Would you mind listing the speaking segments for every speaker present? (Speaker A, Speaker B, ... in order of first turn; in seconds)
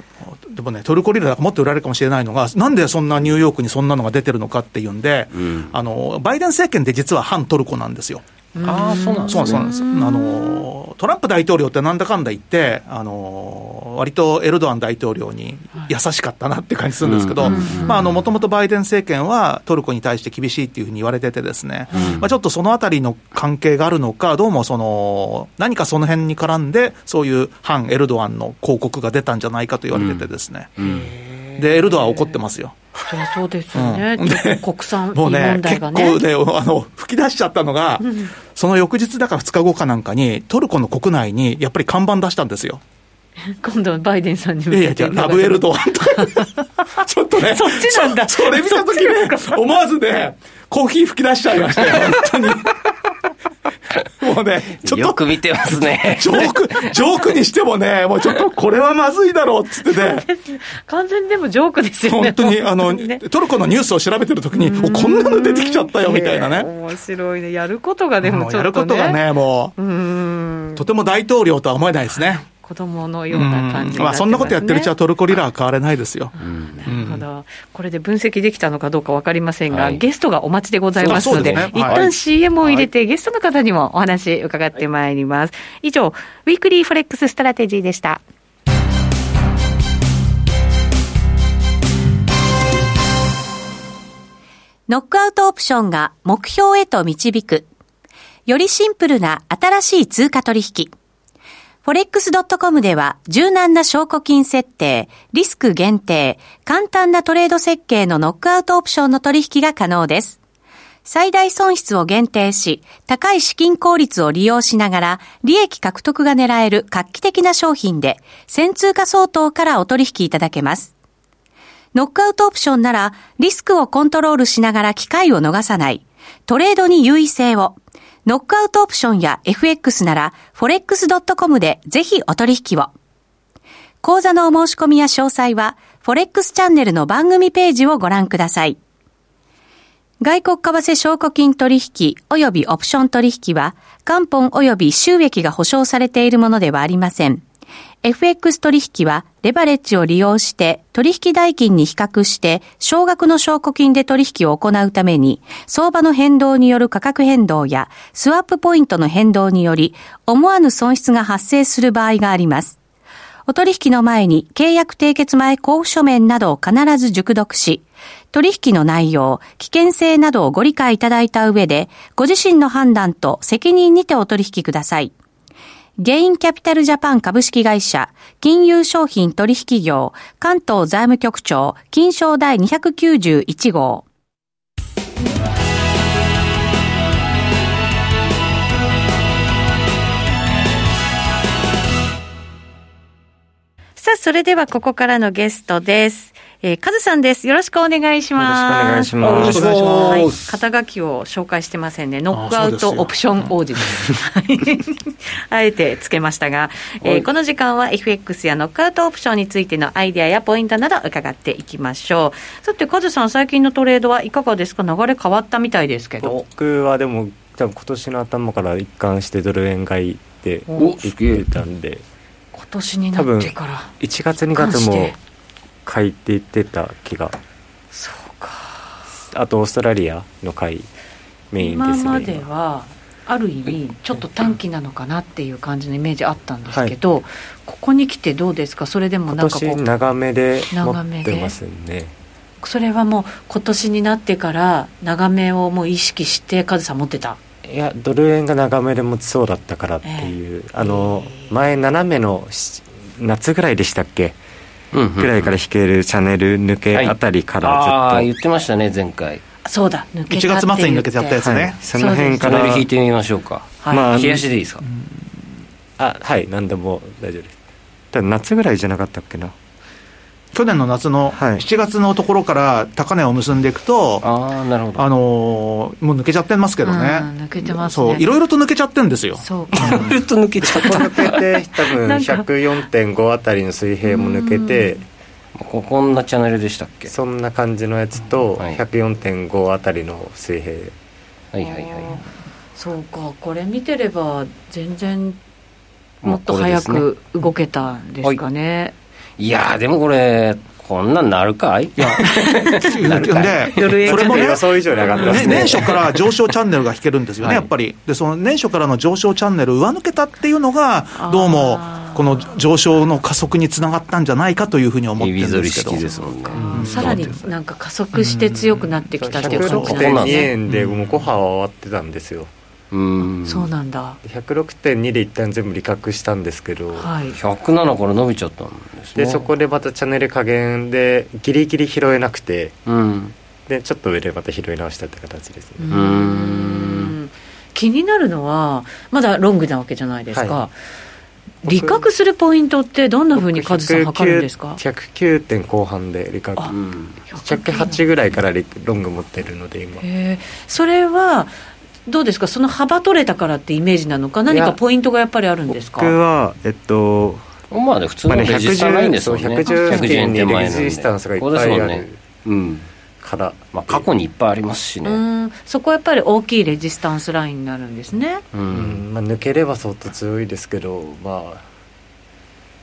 Speaker A: 0.4-8.2, 9.3-30.8, 31.6-32.9, 33.8-42.8, 44.7-52.9, 54.2-55.2, 55.8-60.3, 62.1-66.7, 68.2-69.8, 70.8-72.5, 73.3-76.3, 76.9-77.2, 81.0-82.1, 199.3-200.3, 202.3-203.1, 260.3-261.8, 270.5-274.3, 275.0-280.2, 302.0-304.7, 305.2-316.1, 316.7-317.3, 318.2-318.9, 320.7-321.1
Speaker B: 5.3-5.7, 8.6-9.7, 17.0-18.2, 21.9-22.3, 29.9-30.3, 30.8-31.1, 54.8-56.7, 76.4-76.9, 79.7-80.0, 81.0-82.1, 199.2-200.5, 220.8-221.5, 254.9-255.6, 256.9-259.4, 262.4-264.9, 274.2-275.1, 279.7-281.4, 285.6-287.1, 291.5-292.2, 296.2-297.1, 299.4-304.5, 305.1-306.1, 307.4-307.7, 315.2-317.4, 319.4-320.5, 322.9-323.7, 327.4-329.4, 332.9-333.3, 335.9-337.1, 346.7-347.2, 357.7-362.9, 363.7-365.2, 368.5-369.0
Speaker C: 8.6-10.7, 17.4-18.1, 21.9-22.2, 30.8-32.4, 33.0-36.2, 43.5-46.5, 47.4-49.6, 59.9-63.2, 64.6-69.2, 69.8-70.8, 72.2-74.9, 76.7-88.2, 194.0-216.4, 222.5-223.9, 224.6-225.2, 227.9-229.0, 231.6-239.8, 240.7-241.6, 242.6-247.4, 250.0-251.5, 259.6-262.7, 263.8-264.1, 276.8-278.3, 279.4-280.2, 280.8-281.1, 282.0-282.5, 284.1-285.0, 291.6-292.2, 292.8-295.4, 296.2-298.9, 302.2-302.9, 303.8-305.8, 311.2-312.2, 316.2-320.6, 323.4-324.2, 326.9-327.4, 335.8-340.7, 341.6-344.8, 347.3-348.1, 350.0-351.6, 352.1-356.1, 359.7-360.3, 365.1-368.4
Speaker D: 94.9-97.7, 98.5-100.9, 101.8-110.4, 111.0-120.9, 121.9-132.9, 134.0-138.8, 140.2-147.4, 148.0-162.8, 163.5-175.1, 176.0-184.1
Speaker E: 198.4-199.9, 216.2-222.0, 223.2-225.2, 225.8-227.4, 229.2-230.9, 231.5-232.5, 239.3-242.1, 247.7-254.4, 255.2-258.3, 261.4-262.9, 263.9-264.4, 266.0-267.6, 268.1-269.6, 271.3-271.6, 280.7-285.0, 287.1-290.9, 304.0-306.0, 316.5-317.2, 319.2-322.5, 324.2-327.1, 329.2-332.8, 333.7-335.9, 341.6-342.0, 343.4-346.8, 347.4-350.1, 354.5-354.8, 355.7-357.4, 358.3-362.2, 363.2-364.1, 368.7-371.6